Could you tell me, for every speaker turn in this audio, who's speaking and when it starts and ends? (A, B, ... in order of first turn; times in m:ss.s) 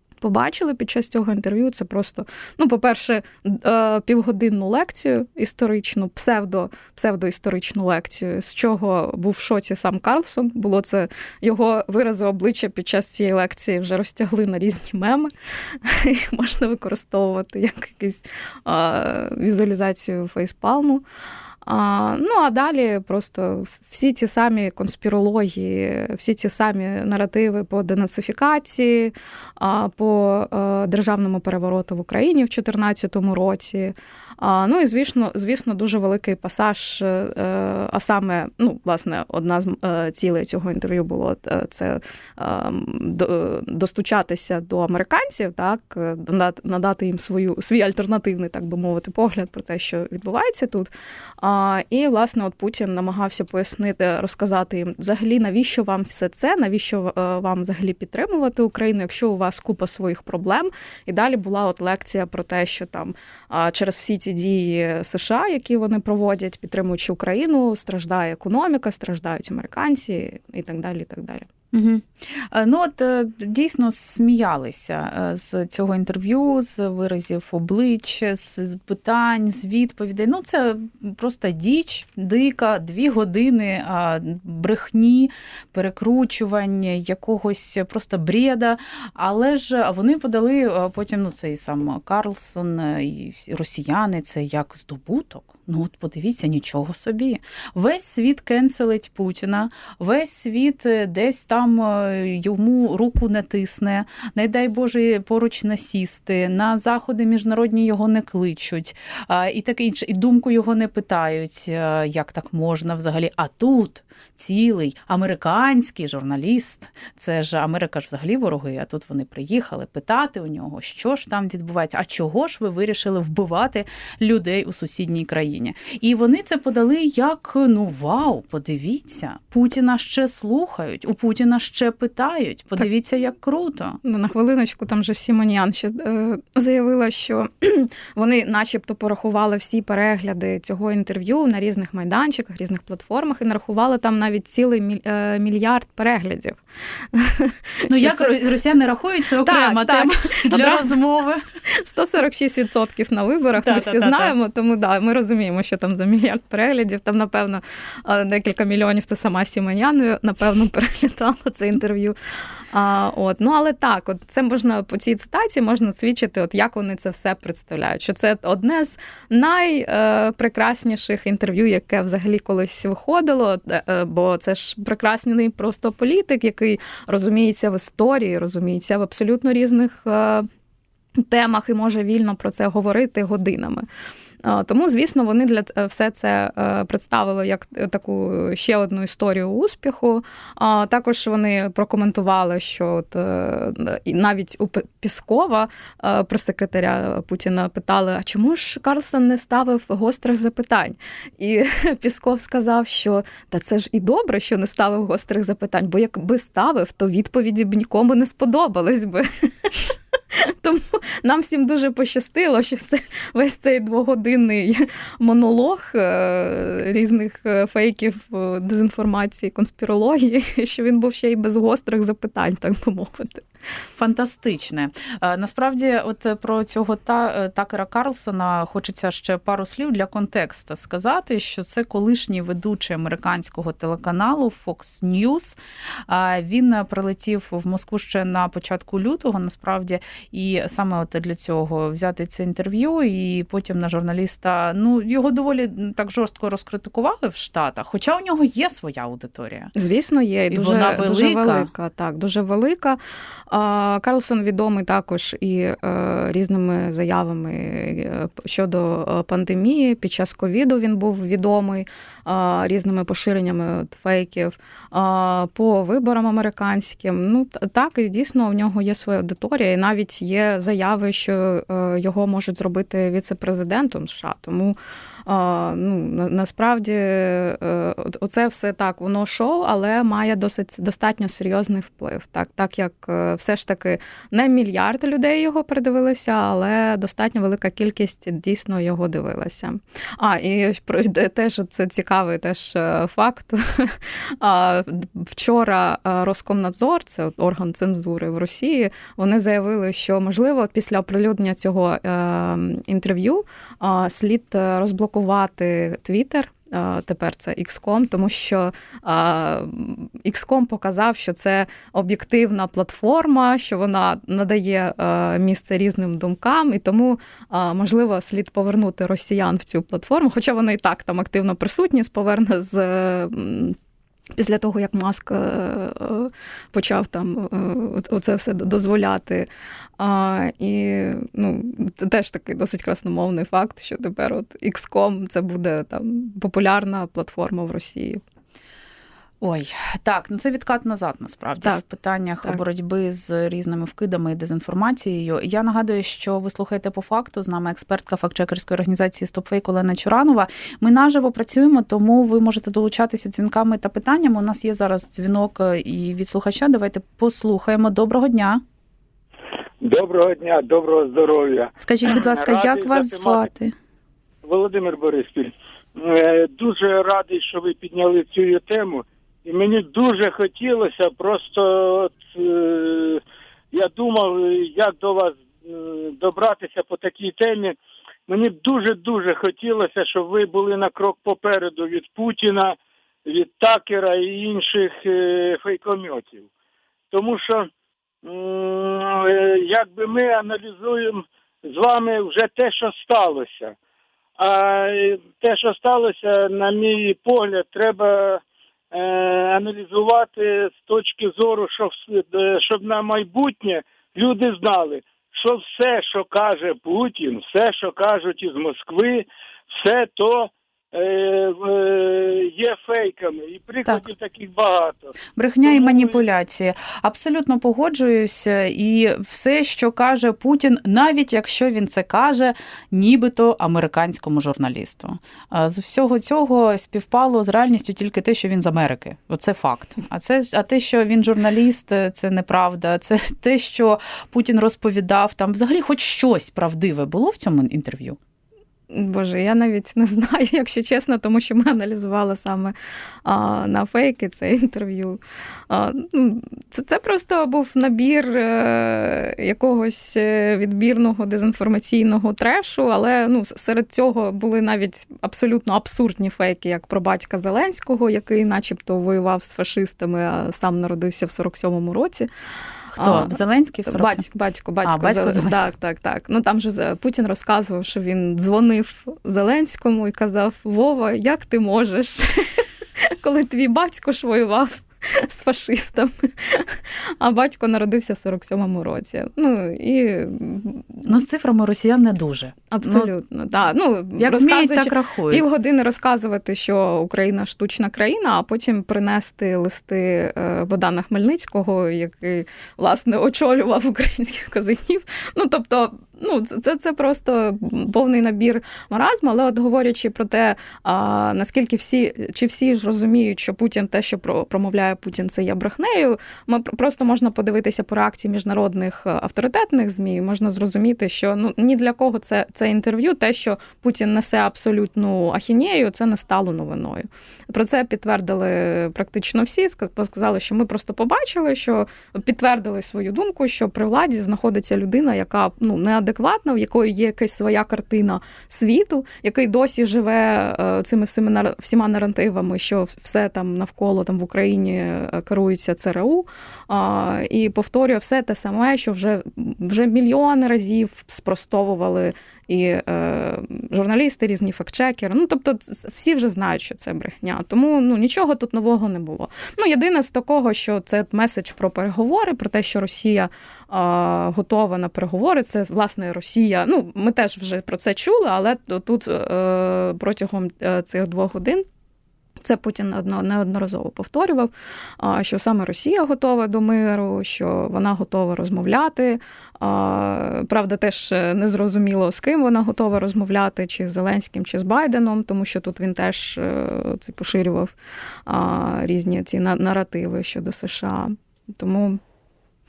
0:00.2-0:15.3 A
0:15.8-0:21.0 A
0:21.6-1:11.5 A
1:11.7-2:14.0 B
2:14.0-2:26.6 A
2:27.1-2:28.3 A
2:27.9-2:31.4 B
2:29.4-2:30.9 A
2:31.7-2:42.2 A
2:33.6-2:34.3 B
2:42.7-3:00.5 A
3:01.2-3:03.9 A
3:04.4-3:43.4 A
3:44.0-3:55.6 B
3:56.1-4:09.7 B
4:09.8-4:13.0 A
4:10.5-4:11.7 B
4:13.5-5:23.8 A
5:24.4-5:29.5 A
5:30.0-5:38.2 A
5:39.4-5:58.6 B
5:59.8-6:03.5 C
6:01.8-6:03.7 B
6:04.4-6:17.8 C
6:18.3-6:26.5 C
6:27.1-6:27.7 C
6:28.2-6:33.8 C
6:34.4-6:56.2 C
6:55.4-7:18.2 B
7:18.9-7:22.7 A
7:23.2-7:25.2 A
7:25.7-7:42.3 A
7:42.9-7:44.2 B
7:43.0-8:01.0 A
7:44.8-7:45.7 B
8:01.0-8:03.1 B
8:02.7-9:21.6 A
8:04.2-8:05.5 B
9:22.4-9:37.8 A
9:38.3-9:42.0 A